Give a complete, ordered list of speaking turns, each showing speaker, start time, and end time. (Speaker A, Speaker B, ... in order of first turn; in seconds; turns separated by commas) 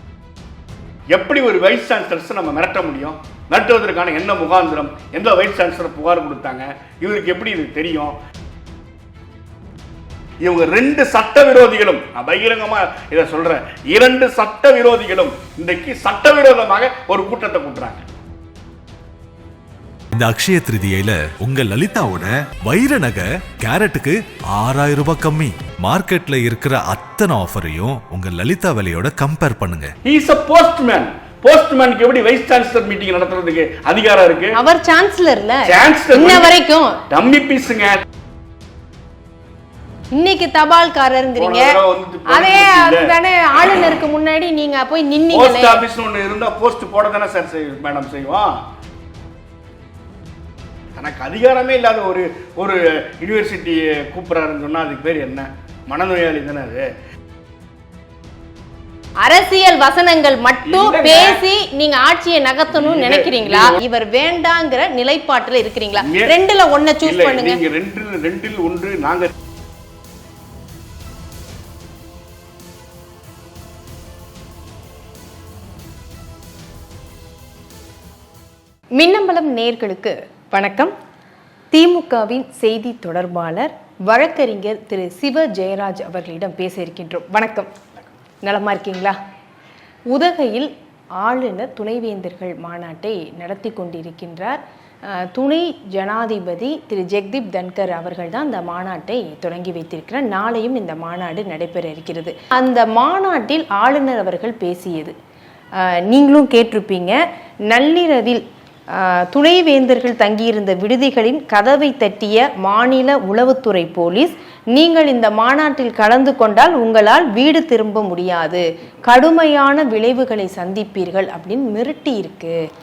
Speaker A: 1.1-8.2, Speaker A: 10.4-18.1, Speaker B: 20.1-29.9, Speaker A: 30.0-34.6, Speaker C: 34.6-37.0, Speaker A: 35.6-36.5, Speaker A: 37.1-38.0, Speaker C: 40.1-45.8, Speaker A: 41.4-43.1, Speaker A: 45.3-48.6, Speaker A: 51.0-56.9, Speaker C: 59.2-67.6, Speaker A: 60.6-61.4, Speaker A: 62.7-63.8, Speaker A: 66.0-66.4, Speaker A: 67.0-69.3, Speaker C: 79.0-80.9, Speaker C: 81.7-87.7, Speaker C: 88.4-89.2, Speaker C: 90.1-105.2, Speaker C: 105.8-122.6